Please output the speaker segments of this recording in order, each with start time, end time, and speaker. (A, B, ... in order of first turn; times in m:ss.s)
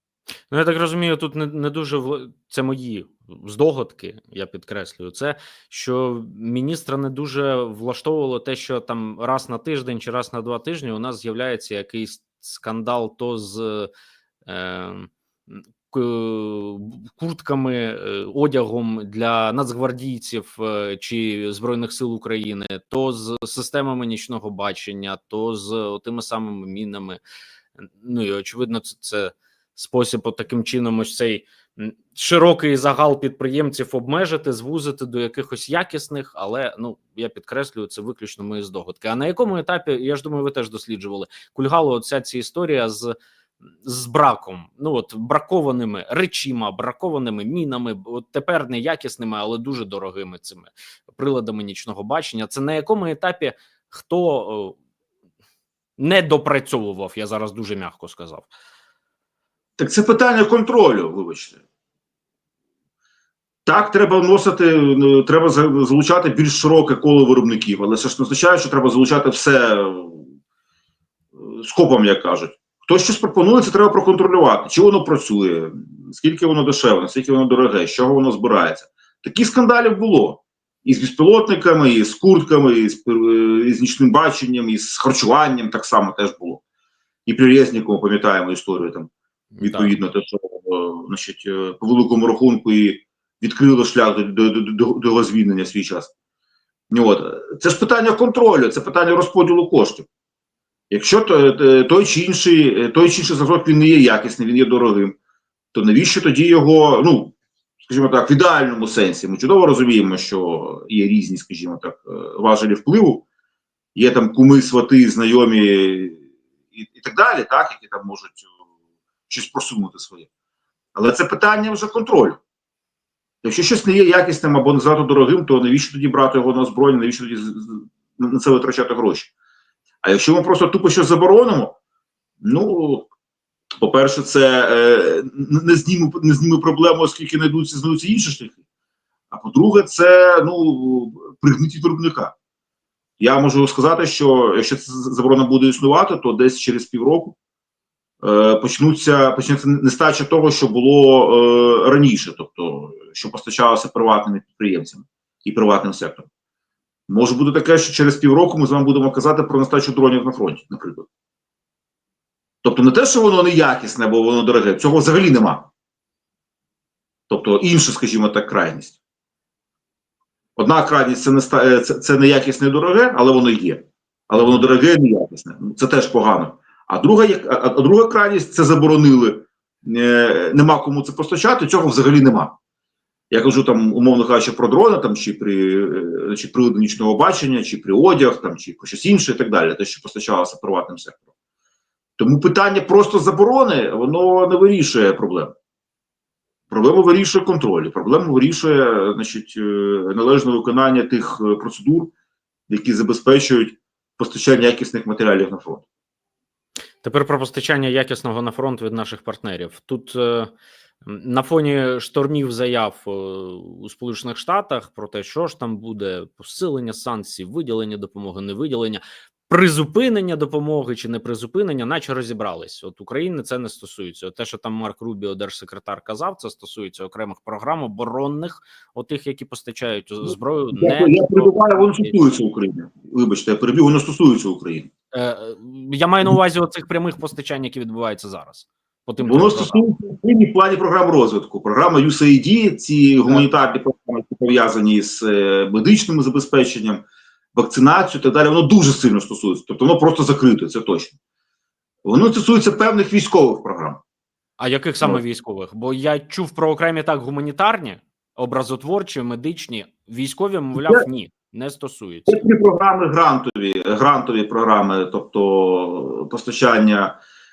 0:00.5-0:13.9 A
0:14.4-0:27.2 A
0:27.8-0:43.1 A
0:43.8-0:54.8 A
0:56.0-0:58.5 A
0:59.8-1:01.6 B
1:03.6-1:10.3 B
1:11.4-1:26.6 B
1:27.2-1:36.1 B
1:29.5-1:30.0 A
1:36.9-1:40.1 B
1:40.9-1:45.2 B
1:45.7-1:53.2 B
1:53.9-1:56.2 B
1:56.7-1:58.4 B
1:59.3-2:00.3 B
2:00.9-2:02.4 B
2:03.4-2:09.3 B
2:10.0-2:11.8 B
2:12.4-2:13.1 B
2:13.8-2:18.6 B
2:19.3-2:22.3 B
2:23.2-2:27.4 B
2:28.2-2:36.3 B
2:37.1-2:41.1 B
2:42.6-2:45.7 B
2:47.3-2:49.0 B
2:50.6-3:02.5 B
2:54.4-2:54.7 A
3:03.3-3:11.3 B
3:12.2-3:15.5 B
3:16.7-3:22.1 B
3:22.7-3:25.8 B
3:27.0-3:30.5 A
3:31.0-3:52.2 A
3:50.3-3:54.9 B
3:55.1-3:59.9 A
3:59.2-4:07.0 B
4:07.5-4:11.2 B
4:12.0-4:14.0 B
4:14.6-4:22.4 A
4:20.8-4:21.0 B
4:22.3-4:27.1 B